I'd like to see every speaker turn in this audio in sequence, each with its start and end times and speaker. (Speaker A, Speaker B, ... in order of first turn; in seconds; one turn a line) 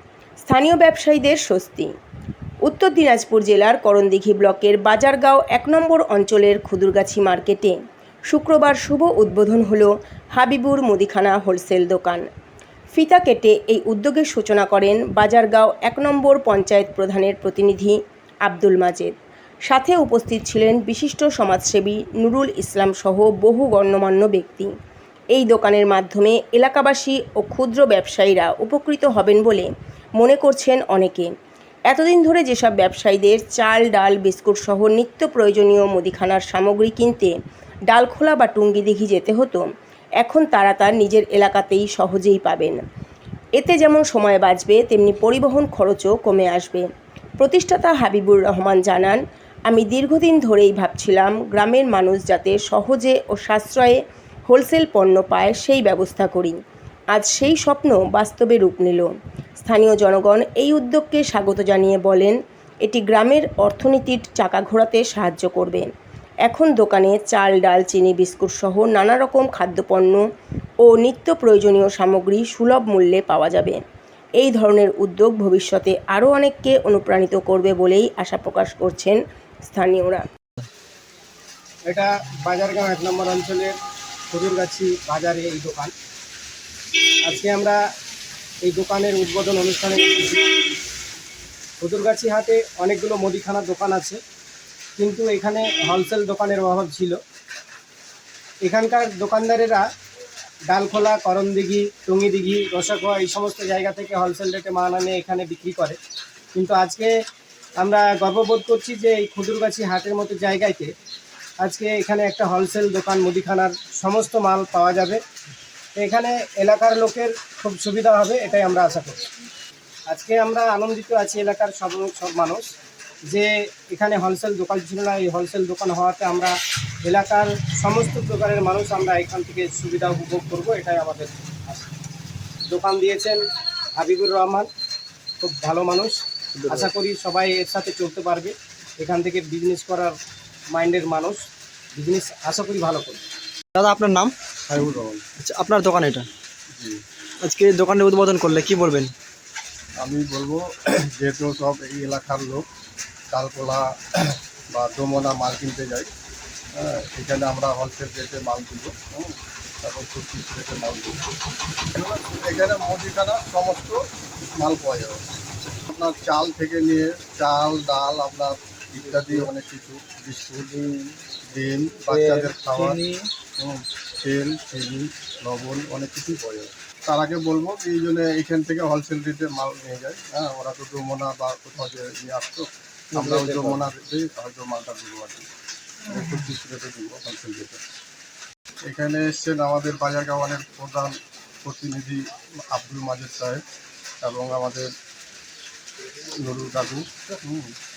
Speaker A: 0.5-1.9
Speaker A: 2.6-12.3
Speaker A: 12.9-19.1
Speaker A: 19.7-24.7
Speaker A: 25.3-31.3
Speaker A: 31.9-37.4
Speaker A: 37.9-39.7
Speaker A: 40.2-42.8
Speaker A: 43.6-46.9
Speaker A: 47.4-54.0
Speaker A: 54.5-56.6
Speaker A: 57.1-59.1
Speaker A: 59.6-65.9
Speaker A: 66.5-70.2
Speaker A: 70.8-73.8
Speaker A: 74.4-80.2
Speaker B: 81.9-83.8
Speaker B: 84.3-85.9
Speaker B: 87.2-87.8
Speaker B: 88.7-90.6
Speaker B: 91.8-94.2
Speaker B: 95.0-97.2
Speaker B: 98.7-99.8
Speaker B: 100.7-106.0
Speaker B: 106.5-107.1
Speaker B: 107.8-110.9
Speaker B: 111.6-115.2
Speaker B: 116.0-119.2
Speaker B: 120.1-122.7
Speaker B: 123.3-131.9
Speaker B: 132.7-133.4
Speaker B: 134.0-134.7
Speaker B: 135.4-140.2
Speaker C: 136.6-136.9
Speaker B: 140.7-141.4
Speaker B: 141.9-143.2
Speaker C: 143.8-144.3
Speaker D: 144.7-145.2
Speaker C: 145.4-146.3
Speaker C: 147.4-149.1
Speaker D: 150.0-152.6
Speaker D: 153.3-156.1
Speaker D: 156.8-161.2
Speaker D: 161.9-164.0
Speaker D: 164.6-165.2
Speaker D: 165.9-170.7
Speaker D: 171.5-173.0
Speaker C: 172.1-173.2
Speaker D: 173.6-185.5
Speaker C: 183.2-183.8
Speaker D: 186.1-187.8
Speaker D: 188.9-193.6
Speaker D: 194.2-194.9
Speaker D: 196.4-197.7